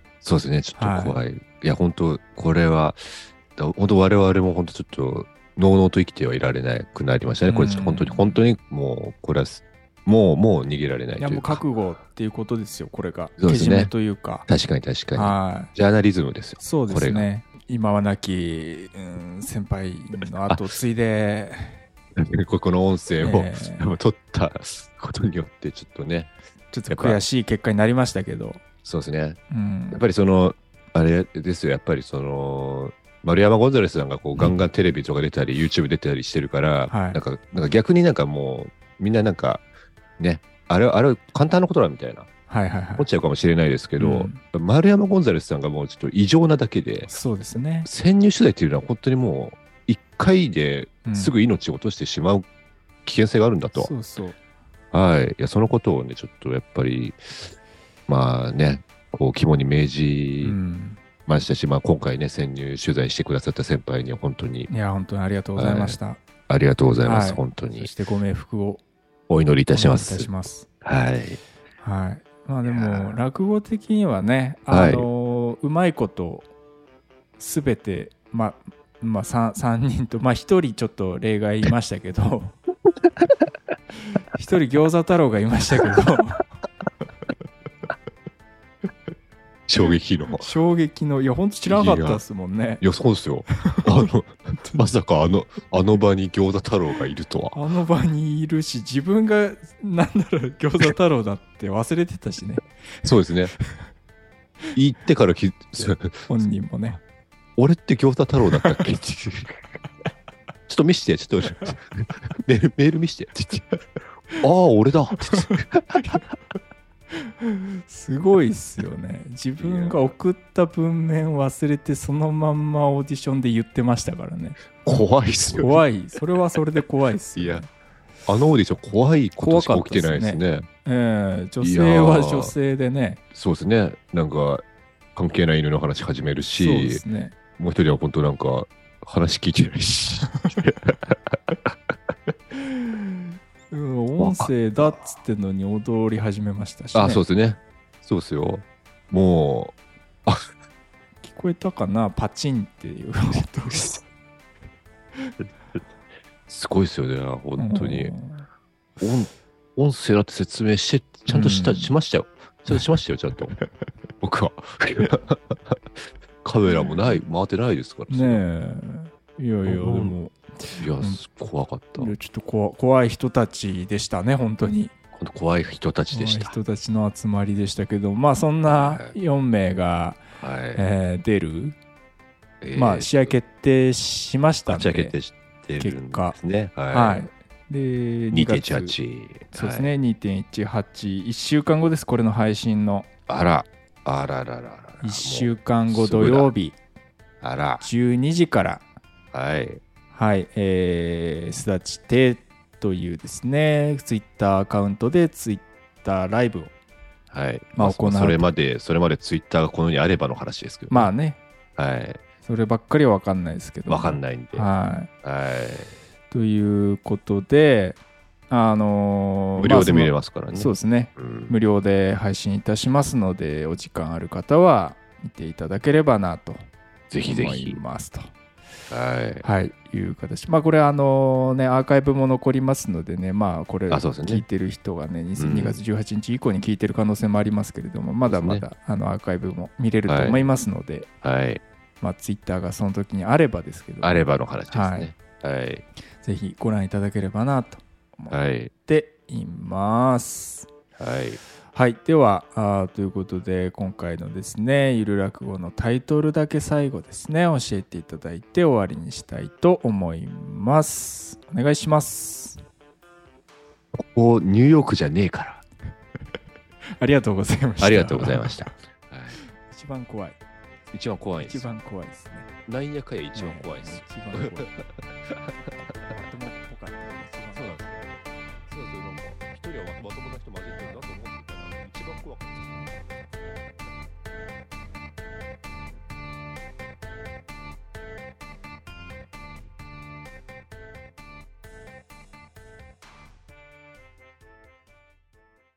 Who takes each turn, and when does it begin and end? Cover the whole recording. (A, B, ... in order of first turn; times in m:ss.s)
0:00.2-0:11.6 A
0:00.8-0:01.2 B
0:07.5-0:08.3 B
0:11.2-0:14.5 B
0:13.4-0:13.9 A
0:14.5-0:17.3 A
0:15.1-0:15.7 B
0:16.6-0:21.8 B
0:22.2-0:26.3 A
0:23.2-0:23.9 B
0:26.7-0:28.6 B
0:26.9-0:27.2 A
0:28.8-0:29.4 A
0:29.5-0:30.0 B
0:29.9-0:39.6 A
0:36.9-0:37.2 B
0:40.2-0:42.3 A
0:42.5-0:43.1 B
0:43.0-0:47.1 A
0:44.0-0:44.4 B
0:47.1-0:47.9 B
0:47.8-0:52.5 A
0:51.0-0:51.3 B
0:53.0-0:53.9 A
0:53.7-0:54.4 B
0:54.9-0:57.5 A
0:58.1-1:00.6 A
1:00.4-1:01.0 B
1:01.2-1:04.7 A
1:04.7-1:06.2 B
1:05.6-1:07.9 A
1:07.0-1:08.8 B
1:09.3-1:10.3 A
1:09.7-1:10.7 B
1:10.8-1:11.4 A
1:11.8-1:16.5 B
1:12.6-1:13.1 A
1:14.7-1:15.1 A
1:17.4-1:22.6 B
1:24.3-1:26.4 B
1:29.7-1:30.5 A
1:30.4-1:32.8 B
1:31.6-1:32.2 A
1:32.8-1:37.6 A
1:33.7-1:34.0 B
1:37.5-1:42.6 B
1:43.0-1:43.5 A
1:44.7-1:46.2 A
1:46.3-1:47.0 B
1:47.6-1:49.5 A
1:50.7-1:56.2 A
1:57.4-2:04.8 B
1:59.6-2:00.1 A
2:04.8-2:05.8 A
2:05.6-2:07.7 B
2:07.3-2:07.7 A
2:08.2-2:10.7 A
2:09.4-2:13.2 B
2:11.6-2:12.5 A
2:13.3-2:14.6 A
2:15.1-2:17.0 A
2:16.6-2:17.3 B
2:17.6-2:21.9 A
2:22.6-2:27.2 B
2:24.2-2:25.0 A
2:26.9-2:29.7 A
2:31.2-2:34.0 B
2:36.5-2:38.2 A
2:37.6-2:38.4 B
2:39.0-2:43.5 A
2:41.3-2:41.9 B
2:44.2-2:48.4 A
2:48.1-2:51.2 B
2:49.6-2:50.1 A
2:50.7-2:52.1 A
2:52.0-2:54.9 B
2:55.1-2:56.6 A
2:56.1-3:00.2 B
2:58.6-2:59.1 A
3:00.4-3:00.8 A
3:00.7-3:01.8 B
3:02.6-3:03.3 A
3:02.7-3:05.2 B
3:04.7-3:07.3 A
3:05.8-3:09.0 B
3:08.3-3:09.9 A
3:09.5-3:13.1 B
3:13.3-3:16.5 A
3:15.0-3:16.8 B
3:17.4-3:17.8 A
3:17.8-3:18.8 B
3:19.3-3:19.8 A
3:20.1-3:26.7 B
3:27.3-3:31.1 A
3:27.7-3:28.5 B
3:30.9-3:31.4 B
3:31.8-3:32.2 A
3:32.4-3:35.1 B
3:33.9-3:34.7 A
3:35.2-3:35.9 A
3:36.3-3:38.0 B
3:38.5-3:46.7 B
3:39.6-3:41.5 A
3:47.1-3:47.8 A
3:47.2-3:48.3 B
3:48.9-3:49.4 A
3:49.4-4:01.1 B
3:53.9-3:54.4 A
3:55.4-3:55.8 A
3:58.2-3:58.6 A
4:00.0-4:00.5 A
4:01.2-4:01.6 A
4:02.0-4:05.1 B
4:04.0-4:05.8 A
4:06.2-4:10.7 B
4:08.3-4:08.7 A
4:11.0-4:11.4 A
4:11.7-4:22.6 B
4:23.9-4:25.6 A
4:27.0-4:28.7 B
4:27.8-4:29.4 A
4:29.6-4:30.4 B
4:30.9-4:31.7 A
4:31.4-4:32.5 B
4:32.6-4:35.6 A
4:33.3-4:34.7 B
4:36.1-4:37.8 B
4:37.5-4:38.1 A
4:38.7-4:43.0 A